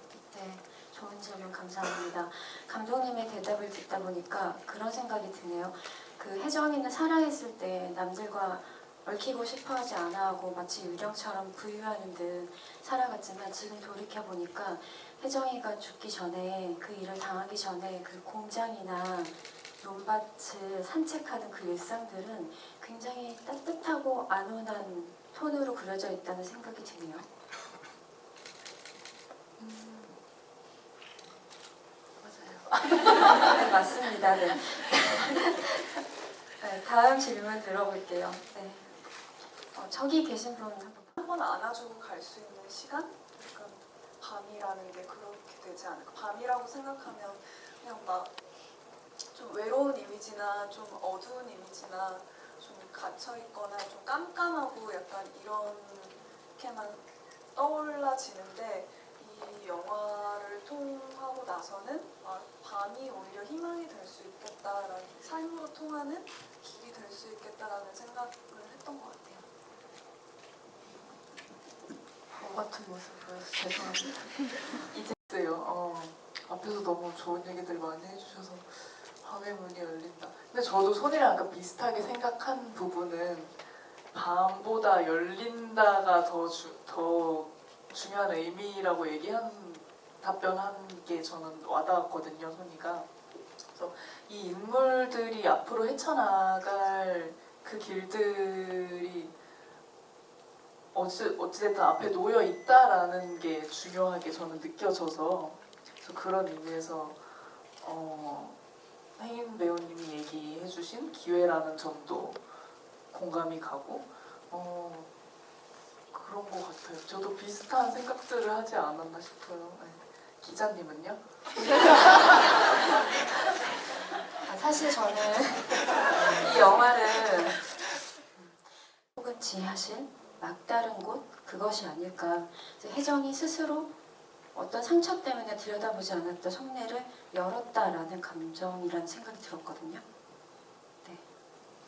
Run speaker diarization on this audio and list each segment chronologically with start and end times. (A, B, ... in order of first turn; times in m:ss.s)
0:00.3-0:27.3 A
0:29.6-0:30.2 B
0:32.2-0:33.5 B
0:33.3-0:36.0 A
0:36.6-0:38.9 A
0:39.7-0:41.2 A
0:41.2-0:48.3 C
0:49.3-1:09.5 C
1:12.3-1:14.4 B
1:15.1-1:33.1 D
1:33.7-1:39.3 D
1:40.9-1:48.6 D
1:49.2-1:52.4 D
1:53.1-1:55.1 D
1:56.1-2:02.6 D
2:04.3-2:07.7 A
2:08.7-2:13.9 A
2:14.5-2:20.0 A